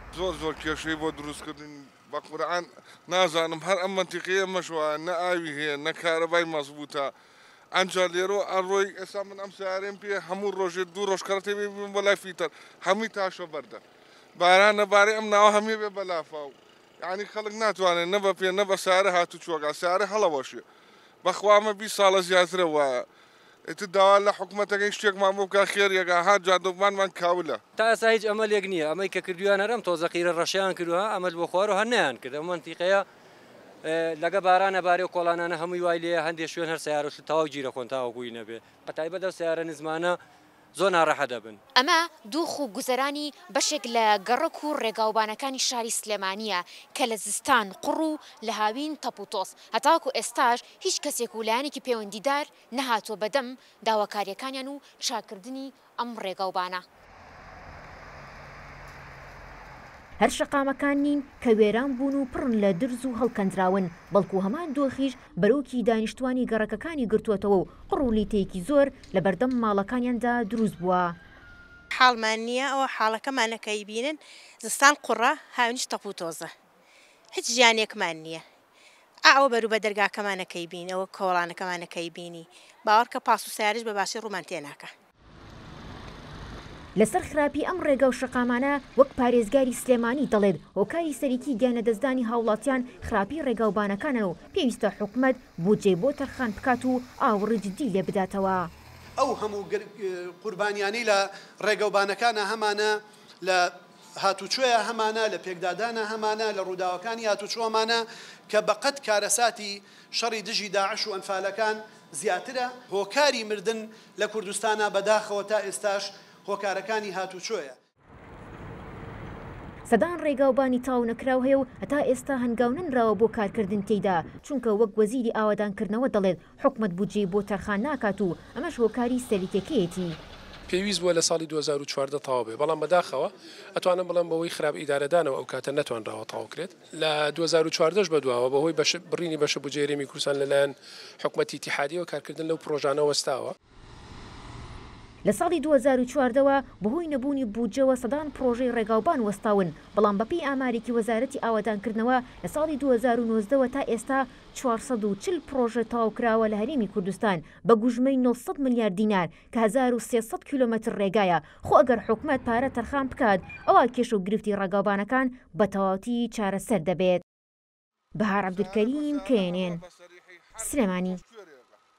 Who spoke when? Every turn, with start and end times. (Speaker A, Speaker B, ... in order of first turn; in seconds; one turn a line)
Speaker A: 0.1-7.1
Speaker A: 7.7-13.8
Speaker A: 14.4-20.6
Speaker A: 21.2-23.1
Speaker A: 23.7-27.6
Speaker B: 27.8-33.1
Speaker B: 33.8-40.2
Speaker B: 40.8-41.6
Speaker C: 41.8-56.8
Speaker C: 60.2-71.2
Speaker D: 71.9-76.5
Speaker D: 77.3-78.5
Speaker D: 79.2-84.9
Speaker C: 87.0-98.7
Speaker E: 99.2-117.8
Speaker C: 119.9-130.2
Speaker F: 130.7-143.6
Speaker C: 145.2-167.2
Speaker C: 168.2-169.8
Speaker A: 168.5-171.8
Speaker C: 170.6-171.2